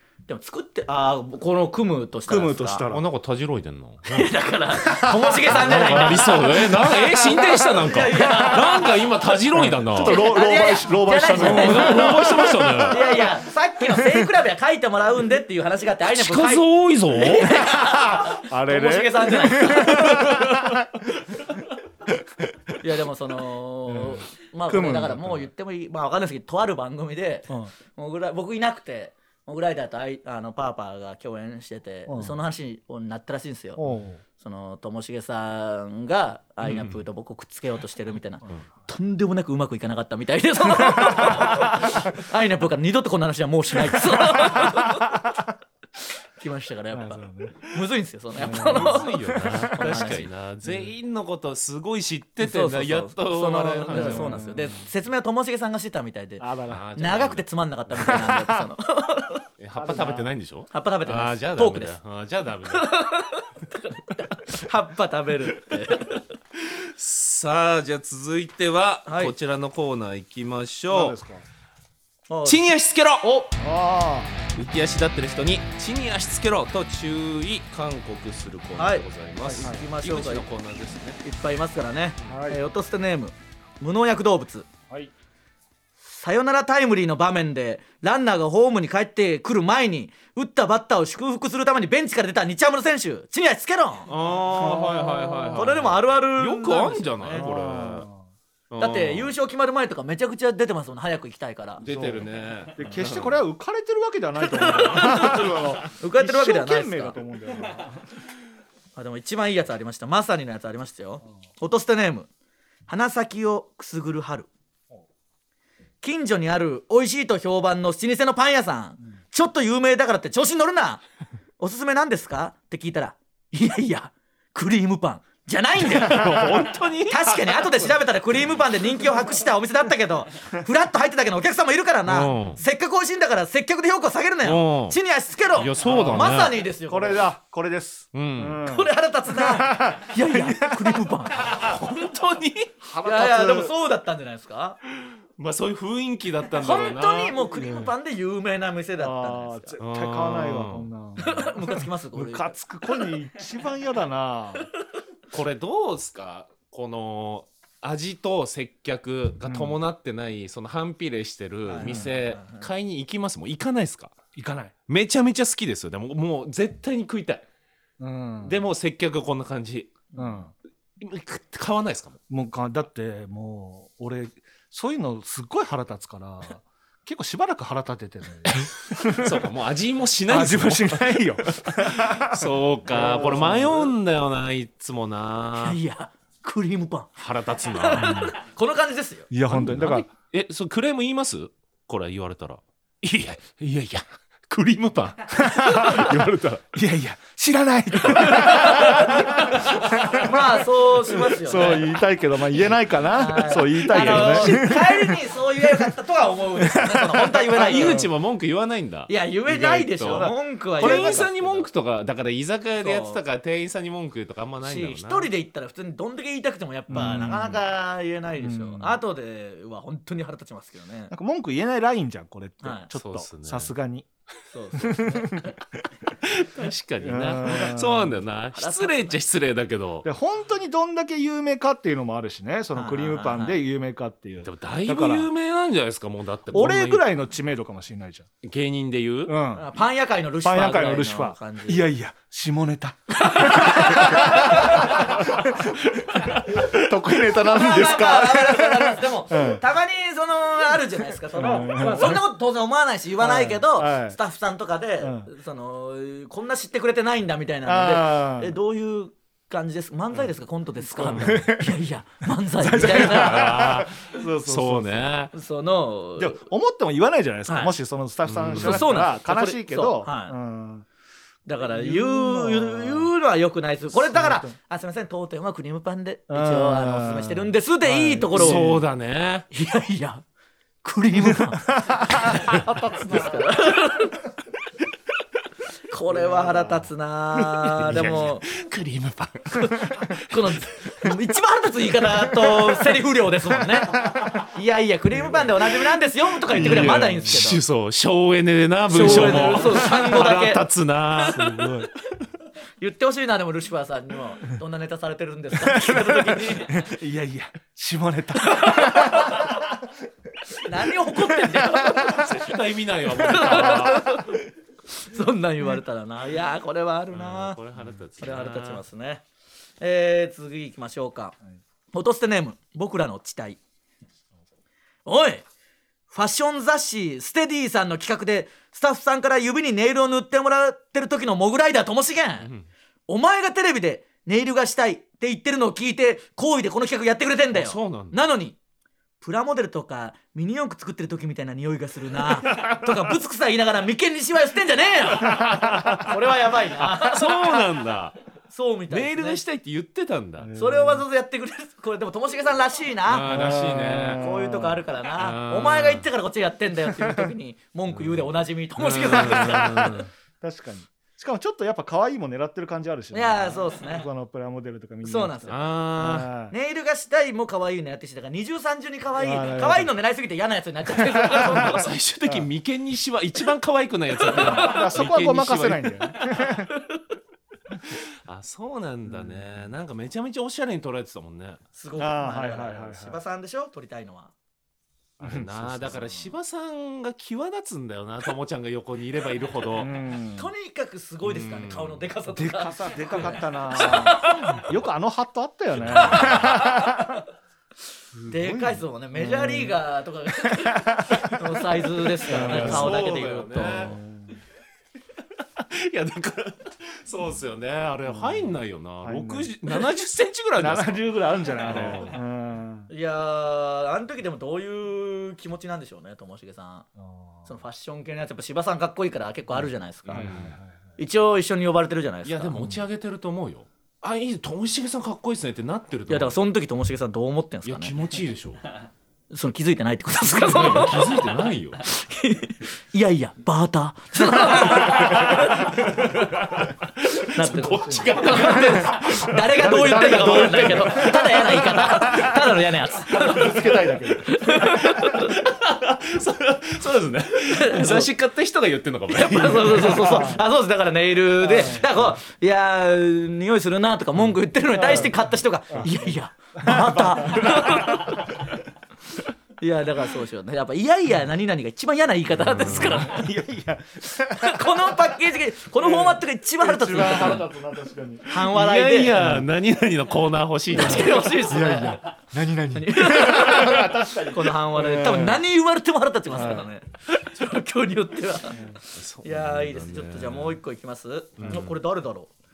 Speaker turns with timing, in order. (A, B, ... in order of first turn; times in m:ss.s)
0:00.3-0:02.8 A
0:02.3-0:03.0 B
0:02.9-0:04.3 C
0:04.1-0:09.4 A
0:04.9-0:06.4 B
0:05.5-0:10.2 C
0:08.2-0:08.6 B
0:09.5-0:13.2 B
0:09.9-0:20.5 A
0:11.3-0:13.2 C
0:13.9-0:14.3 B
0:16.1-0:17.6 C
0:17.6-0:20.9 B
0:20.0-0:20.5 C
0:22.8-0:33.8 A
0:23.9-0:25.5 B
0:32.1-0:32.3 B
0:33.8-0:34.2 B
0:34.4-0:45.2 A
0:36.6-0:37.0 C
0:41.0-0:41.8 B
0:44.1-0:45.4 B
0:46.4-0:50.3 A
0:46.9-0:47.7 B
0:48.4-0:50.0 B
0:48.4-0:54.6 C
0:50.6-0:50.9 B
0:52.4-1:00.1 A
0:53.9-0:54.8 B
0:56.4-0:56.8 B
0:56.7-0:57.4 C
0:58.0-0:58.6 B
0:59.6-1:02.9 C
0:59.8-1:00.3 B
1:00.7-1:01.9 A
1:02.7-1:06.2 A
1:06.5-1:11.2 C
1:09.1-1:09.3 A
1:10.9-1:11.4 B
1:12.3-1:12.7 A
1:12.4-1:13.3 C
1:13.2-1:13.5 A
1:13.6-1:14.3 B
1:14.5-1:21.2 C
1:18.8-1:20.5 A
1:21.2-1:24.7 A
1:22.3-1:22.6 B
1:26.1-1:34.1 A
1:34.1-1:38.1 C
1:34.5-1:35.8 B
1:35.5-1:37.4 A
1:37.3-1:38.2 B
1:38.7-1:39.3 C
1:38.8-1:41.8 A
1:41.8-1:43.4 C
1:41.8-1:48.0 B
1:44.5-1:47.2 A
1:49.0-1:52.3 A
1:52.9-1:54.5 A
1:56.0-2:01.0 A
2:01.6-2:17.2 A
2:05.8-2:07.9 C
2:06.2-2:06.4 B
2:12.1-2:12.6 C
2:14.4-2:15.0 C
2:15.6-2:16.6 C
2:15.8-2:21.2 B
2:18.1-2:18.6 C
2:18.6-2:21.6 A
2:21.4-2:22.7 C
2:22.8-2:23.7 B
2:23.0-2:24.8 A
2:24.9-2:27.4 C
2:26.6-2:29.8 A
2:27.5-2:27.9 B
2:29.0-2:34.7 B
2:29.8-2:30.9 C
2:31.2-2:33.1 A
2:35.3-2:44.2 C
2:39.4-2:39.8 B
2:41.6-2:42.7 A
2:41.8-2:42.1 B
2:44.4-2:44.7 B
2:44.9-2:47.4 C
2:48.0-2:48.6 B
2:48.4-2:50.0 C
2:50.1-2:50.5 B
2:51.0-2:52.2 C
2:52.3-2:59.4 B
2:58.5-3:05.8 C
3:00.3-3:03.9 B
3:05.6-3:09.3 A
3:07.2-3:08.3 C
3:08.0-3:08.3 B
3:09.3-3:10.1 B
3:09.5-3:16.6 C
3:15.4-3:25.9 B
3:18.2-3:20.1 C
3:18.3-3:22.0 A
3:23.1-3:28.1 A
3:23.8-3:24.8 C
3:26.6-3:28.1 B
3:27.5-3:35.3 C
3:29.1-3:31.6 A
3:30.0-3:31.3 B
3:32.8-3:33.2 A
3:34.6-3:41.1 A
3:36.9-3:37.6 B
3:38.4-3:39.0 B
3:41.1-3:44.1 B
3:42.6-3:42.9 A
3:42.9-3:43.7 C
3:44.5-3:45.6 A
3:44.7-3:45.5 B
3:46.2-3:50.1 C
3:47.0-3:48.2 B
3:48.5-3:49.2 A
3:50.0-3:55.3 B
3:52.7-3:53.6 A
3:54.4-3:57.1 C
3:56.5-3:58.3 B
3:58.4-3:59.3 C
3:59.3-3:59.6 B
3:59.5-4:01.9 A
4:00.4-4:09.6 B
4:03.2-4:05.4 A
4:06.2-4:06.8 C
4:07.4-4:23.7 A
4:11.3-4:12.2 B
4:13.2-4:14.2 B
4:15.0-4:15.3 B
4:17.6-4:18.6 B
4:21.0-4:21.4 C
4:21.1-4:21.8 B
4:22.6-4:25.2 B
4:22.8-4:25.3 C
4:25.3-4:26.4 A
4:26.2-4:30.8 B
4:27.5-4:27.7 A
4:28.3-4:28.8 C
4:28.5-4:30.3 A
4:31.4-4:38.7 A
4:31.7-4:33.1 B
4:33.9-4:34.5 B
4:36.3-4:38.8 B
4:38.3-4:39.5 C
4:39.5-4:40.2 A
4:40.8-4:44.2 A
4:41.1-4:43.5 B
4:45.9-4:48.4 A
4:46.1-4:46.9 B
4:47.6-4:50.3 C
4:49.6-4:57.6 A
4:53.9-4:54.5 B
4:55.1-4:55.6 B
4:56.5-4:57.4 B
4:56.5-5:01.4 C
4:58.9-5:01.9 A
4:58.9-4:59.8 B
5:01.3-5:01.9 B
5:02.8-5:06.9 A
5:05.6-5:09.9 B
5:08.4-5:09.5 A
5:10.5-5:12.2 B
5:10.6-5:12.5 A
5:11.9-5:14.2 C
5:13.1-5:14.4 A
5:13.4-5:14.1 B
5:14.9-5:17.6 A
5:17.1-5:18.8 C
5:18.2-5:19.2 A
5:19.8-5:21.3 A
5:21.9-5:23.6 A
5:25.0-5:25.4 A
5:26.1-5:32.5 A
5:32.4-5:32.7 C
5:33.1-5:38.6 A
5:37.5-5:38.2 C
5:39.2-5:47.6 A
5:45.1-5:46.2 C
5:45.3-5:46.0 B
5:46.8-5:48.1 C
5:48.5-5:49.4 A
5:48.9-5:50.5 C
5:50.4-5:51.0 B
5:50.6-5:53.3 A
5:53.0-5:54.2 C
5:53.3-5:54.8 B
5:54.1-6:00.0 A
5:55.1-5:56.0 C
5:57.0-5:57.3 B
5:57.9-6:00.1 C
5:59.2-6:06.5 B
6:03.1-6:04.1 A
6:05.0-6:05.6 A
6:05.5-6:06.3 C
6:06.5-6:11.9 A
6:09.2-6:09.9 B
6:10.9-6:12.5 B
6:11.5-6:16.1 C
6:14.2-6:14.9 A
6:14.3-6:16.7 B
6:16.2-6:17.0 A
6:17.9-6:21.6 C
6:19.1-6:19.4 B
6:21.7-6:24.3 A
6:22.0-6:23.2 B
6:25.2-6:29.9 C
6:25.2-6:25.8 B
6:25.8-6:26.3 A
6:29.8-6:30.5 B
6:30.3-6:34.7 A
6:31.2-6:32.0 C
6:32.3-6:37.2 B
6:35.7-6:36.6 C
6:35.9-6:37.2 A
6:38.1-6:39.8 B
6:38.3-6:44.0 A
6:40.5-6:43.0 B
6:42.3-6:44.0 C
6:43.9-6:44.4 B
6:45.6-6:51.0 C
6:48.1-6:48.5 B
6:49.0-6:49.6 B
6:50.6-6:52.9 B
6:51.6-6:52.1 C
6:52.9-6:56.9 A
6:57.0-6:57.5 B
6:57.4-7:00.3 A
7:00.1-7:00.6 C
7:00.1-7:00.9 B
7:01.0-7:02.6 A
7:02.2-7:06.4 C
7:06.1-7:08.0 A
7:07.6-7:08.6 C
7:09.3-7:11.2 A
7:10.3-7:11.8 C
7:11.8-7:15.9 A
7:14.6-7:22.3 C
7:17.2-7:25.4 A
7:17.4-7:22.4 B
7:23.1-7:25.2 B
7:23.1-7:23.6 C
7:24.8-7:30.2 C
7:27.5-7:28.1 A
7:29.1-7:38.4 A
7:29.9-7:30.4 B
7:31.4-7:32.1 B
7:34.7-7:38.5 B
7:39.6-7:43.4 A
7:42.4-7:43.1 C
7:42.8-7:44.9 B
7:44.3-7:47.5 A
7:45.7-7:48.3 B
7:48.3-7:49.2 A
7:48.3-7:51.5 C
7:49.2-7:49.4 B
7:50.8-7:52.0 A
7:50.8-7:55.4 B
7:52.7-8:02.3 A
7:56.3-7:56.7 B
7:58.9-8:00.6 C
8:01.4-8:01.7 C